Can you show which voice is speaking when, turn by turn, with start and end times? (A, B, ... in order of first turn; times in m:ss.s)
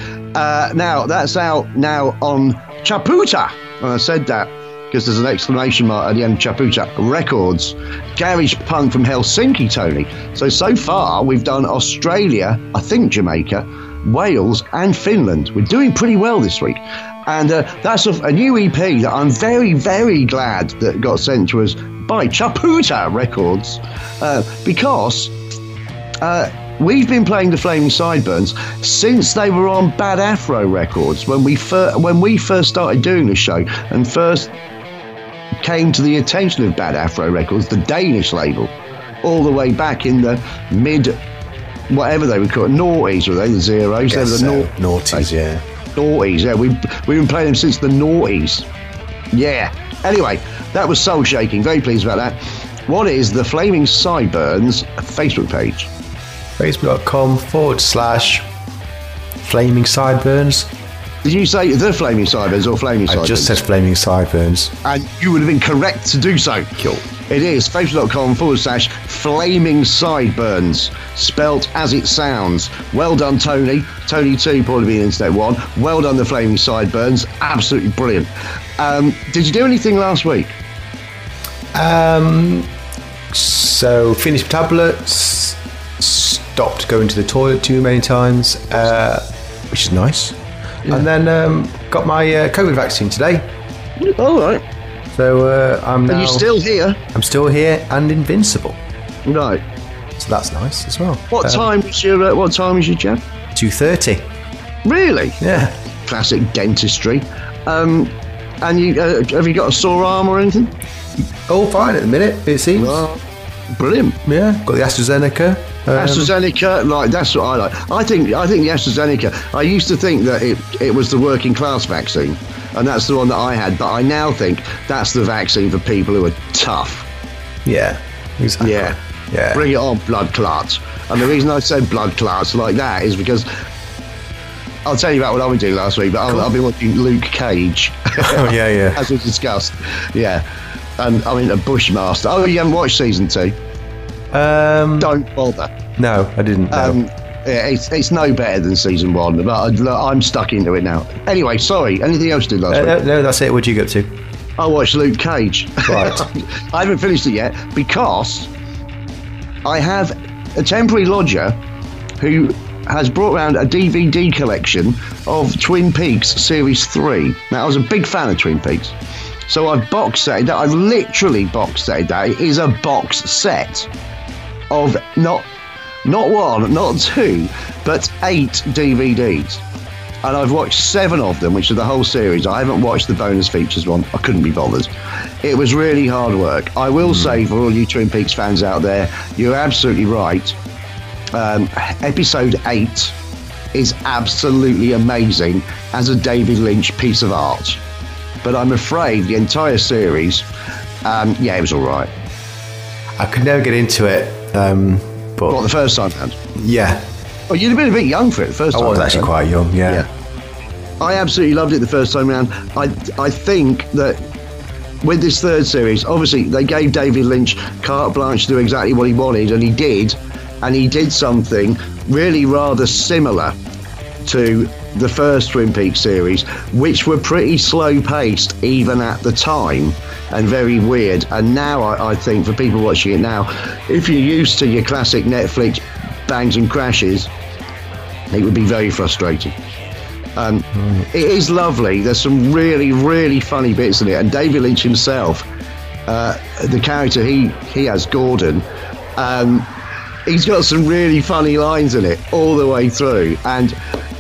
0:00.4-0:25.3 A
0:26.2-0:34.5 A
0:35.6-0:38.7 A
0:39.2-0:41.2 A
0:41.9-0:45.3 A
0:44.1-0:45.6 B
0:46.0-0:48.7 A
0:49.3-0:55.9 A
0:56.6-0:58.4 B
0:59.4-1:00.7 B
1:01.2-1:03.6 A
1:03.1-1:04.7 B
1:04.8-1:06.8 A
1:07.3-1:20.6 A
1:21.7-1:22.7 B
1:23.3-1:33.5 B
1:34.0-1:34.6 A
1:35.1-1:36.5 B
1:36.1-1:37.0 A
1:37.1-1:38.8 B
1:39.3-1:39.6 A
1:40.2-1:41.7 B
1:41.3-1:43.2 A
1:43.6-1:44.3 B
1:44.8-1:45.4 A
1:45.4-1:45.8 B
1:46.0-1:50.7 A
1:51.5-1:53.1 B
1:52.8-1:53.2 A
1:53.7-1:54.2 A
1:54.3-1:56.3 B
1:56.0-2:07.1 A
2:07.6-2:09.7 B
2:08.6-2:09.0 A
2:09.5-2:13.5 A
2:14.9-2:20.4 A
2:18.2-2:19.1 B
2:21.0-2:23.6 A
2:24.3-2:25.1 B
2:25.0-2:25.7 A
2:26.0-2:27.0 B
2:26.7-2:32.9 A
2:32.7-2:34.1 B
2:34.6-2:38.5 A
2:35.9-2:36.3 B
2:39.6-2:41.6 A
2:42.2-2:49.0 A
2:49.5-2:53.9 A
2:54.7-2:55.5 A
2:56.0-2:59.6 A
3:00.2-3:04.9 A
3:05.4-3:10.6 A
3:07.1-3:07.4 B
3:11.3-3:13.2 A
3:13.7-3:17.8 A
3:18.4-3:20.5 A
3:21.0-3:22.1 A
3:23.2-3:25.6 B
3:25.5-3:26.4 A
3:26.6-3:27.0 B
3:27.5-3:29.3 A
3:28.7-3:30.1 B
3:31.0-3:34.2 A
3:35.0-3:43.6 A
3:44.2-3:57.3 A
3:58.3-3:59.6 A
4:00.4-4:05.5 A
4:06.1-4:08.7 A
4:09.2-4:09.7 A
4:10.3-4:13.8 A